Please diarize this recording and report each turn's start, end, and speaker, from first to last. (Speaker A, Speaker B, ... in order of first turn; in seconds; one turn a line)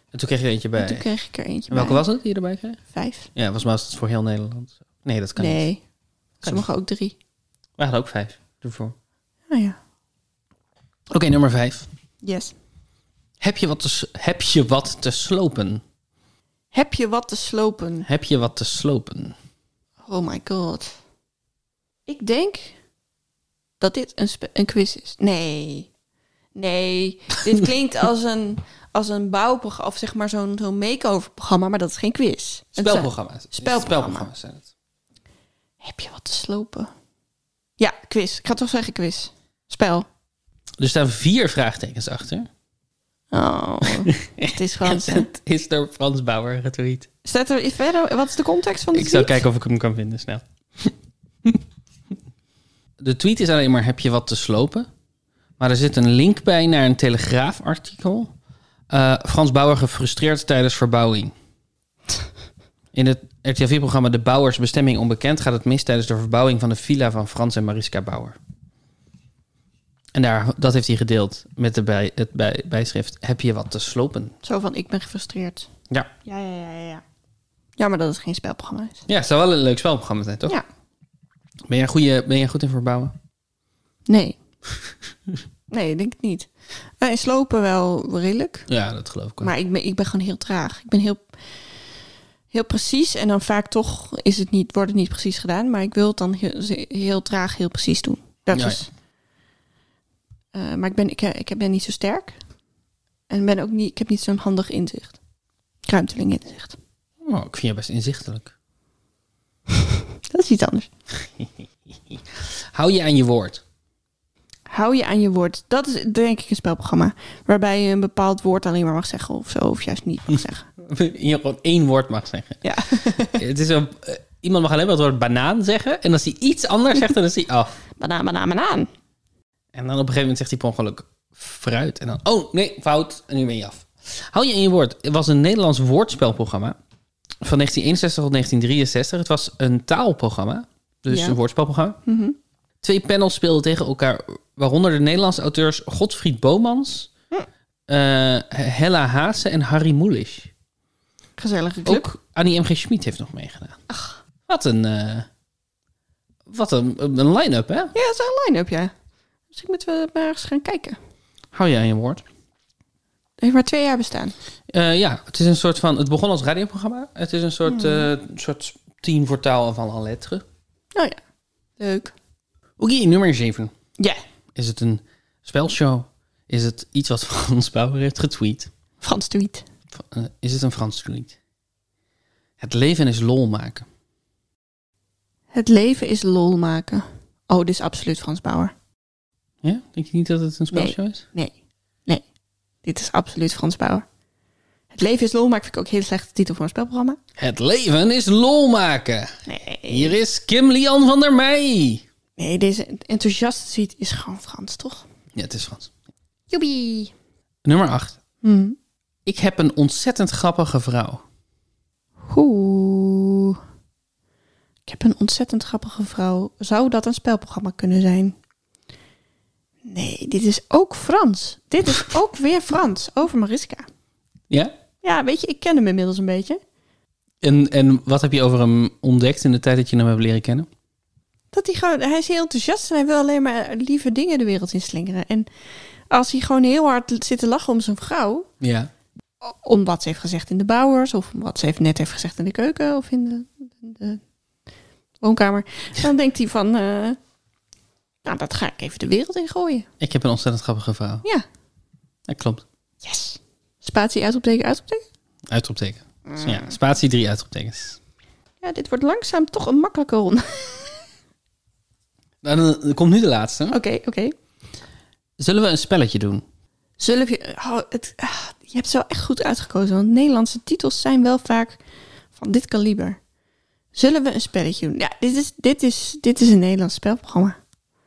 Speaker A: 0.1-1.1
Speaker B: 0.8-2.0
Speaker A: 1.7-2.8
Speaker B: 2.9-3.3
Speaker A: 3.3-5.6
Speaker B: 5.4-5.8
Speaker B: 6.4-7.1
Speaker A: 7.8-8.9
Speaker B: 9.5-9.8
Speaker A: 11.1-11.9
Speaker B: 12.2-12.5
Speaker A: 13.4-15.8
Speaker B: 16.7-18.1
Speaker A: 18.1-19.3
Speaker B: 20.0-21.0
Speaker B: 22.1-22.8
Speaker B: 23.8-25.9
Speaker B: 26.6-34.3
Speaker A: 32.8-34.6
Speaker B: 35.8-36.9
Speaker B: 37.8-40.1
Speaker A: 40.8-42.5
Speaker B: 43.3-45.3
Speaker A: 44.0-47.1
Speaker B: 47.2-49.4
Speaker A: 48.9-50.9
Speaker A: 53.0-54.9
Speaker A: 55.6-58.3
Speaker A: 58.9-61.3
Speaker A: 62.9-68.4
Speaker A: 70.1-74.3
Speaker B: 74.4-75.7
Speaker B: 76.2-77.0
Speaker B: 77.8-79.0
Speaker A: 79.1-80.6
Speaker A: 81.7-83.1
Speaker B: 84.1-84.4
Speaker B: 85.7-86.5
Speaker B: 87.0-88.7
Speaker A: 88.7-89.5
Speaker B: 89.4-91.3
Speaker B: 92.5-98.9
Speaker A: 98.5-98.8
Speaker B: 100.5-102.3
Speaker B: 103.3-105.2
Speaker B: 105.8-106.8
Speaker A: 107.2-108.5
Speaker B: 110.3-110.9
Speaker A: 112.7-113.6
Speaker B: 114.7-120.7
Speaker A: 120.8-122.6
Speaker B: 122.6-123.4
Speaker A: 123.3-127.8
Speaker B: 128.0-128.9
Speaker A: 129.7-136.8
Speaker A: 137.4-142.0
Speaker B: 141.1-141.3
Speaker B: 142.0-142.3
Speaker A: 142.8-147.1
Speaker A: 147.9-150.5
Speaker B: 151.4-152.1
Speaker A: 151.8-153.8
Speaker B: 153.9-154.2
Speaker A: 154.5-155.3
Speaker A: 156.5-157.9
Speaker B: 157.9-158.9
Speaker B: 159.5-161.0
Speaker A: 161.5-162.2
Speaker B: 163.4-164.3
Speaker A: 164.7-170.4
Speaker B: 167.7-168.1
Speaker B: 171.8-172.1
Speaker A: 172.8-173.7
Speaker A: 174.5-178.7
Speaker B: 179.0-179.6
Speaker A: 179.9-181.3
Speaker A: 182.6-183.8
Speaker B: 185.5-188.7
Speaker A: 189.6-191.2
Speaker B: 190.7-191.5
Speaker B: 192.8-194.1
Speaker B: 194.9-197.2
Speaker A: 197.4-202.0
Speaker B: 199.5-200.2
Speaker B: 202.4-205.0
Speaker A: 205.3-205.9
Speaker B: 206.5-207.1
Speaker A: 207.6-208.2
Speaker B: 208.4-208.8
Speaker A: 209.2-211.2
Speaker B: 212.3-213.6
Speaker B: 214.9-218.3
Speaker B: 219.8-223.8
Speaker B: 225.0-226.6
Speaker A: 227.4-230.7
Speaker B: 231.5-235.5
Speaker B: 236.1-238.5
Speaker A: 238.6-238.9
Speaker B: 239.4-244.2
Speaker B: 245.2-247.2
Speaker B: 248.2-249.9
Speaker A: 250.0-251.2
Speaker A: 252.3-252.6
Speaker B: 253.0-255.0
Speaker A: 255.5-258.0
Speaker B: 256.3-256.7
Speaker B: 258.6-261.0
Speaker A: 262.4-263.8
Speaker B: 263.7-264.3
Speaker A: 265.4-266.4
Speaker B: 267.0-271.8
Speaker B: 272.3-273.2
Speaker B: 273.9-277.6